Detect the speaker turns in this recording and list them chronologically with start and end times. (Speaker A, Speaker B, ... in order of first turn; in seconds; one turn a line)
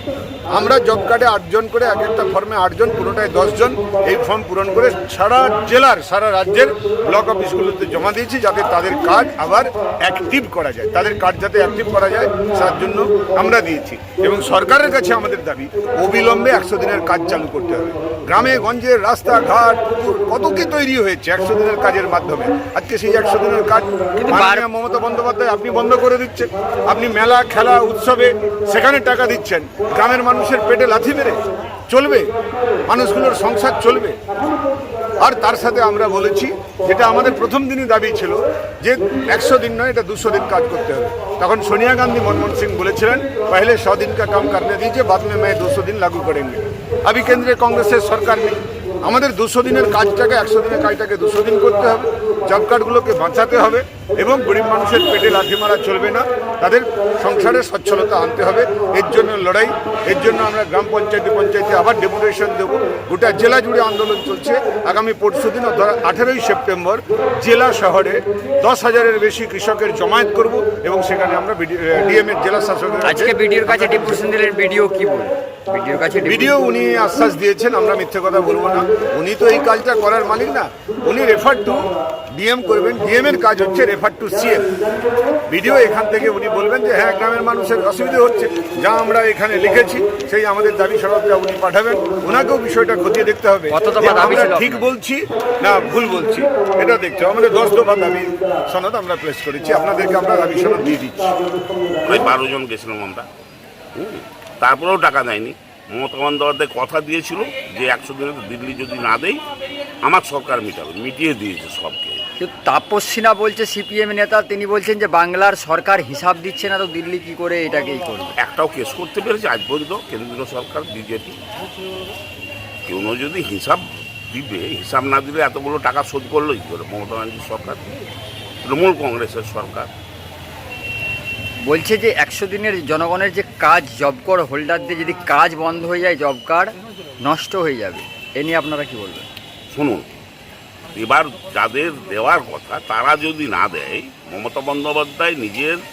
Speaker A: 0.5-32.3
Speaker B: 24.1-24.6
Speaker A: 32.9-34.2
Speaker A: 35.2-74.2
Speaker B: 73.0-76.6
Speaker A: 76.3-84.7
Speaker A: 85.5-101.4
Speaker B: 93.7-94.9
Speaker C: 102.0-103.3
Speaker C: 104.0-109.4
Speaker C: 110.0-112.2
Speaker B: 112.4-118.3
Speaker C: 118.4-121.4
Speaker C: 122.9-127.8
Speaker C: 128.6-129.9
Speaker B: 131.6-139.3
Speaker C: 139.7-140.1
Speaker C: 140.9-145.8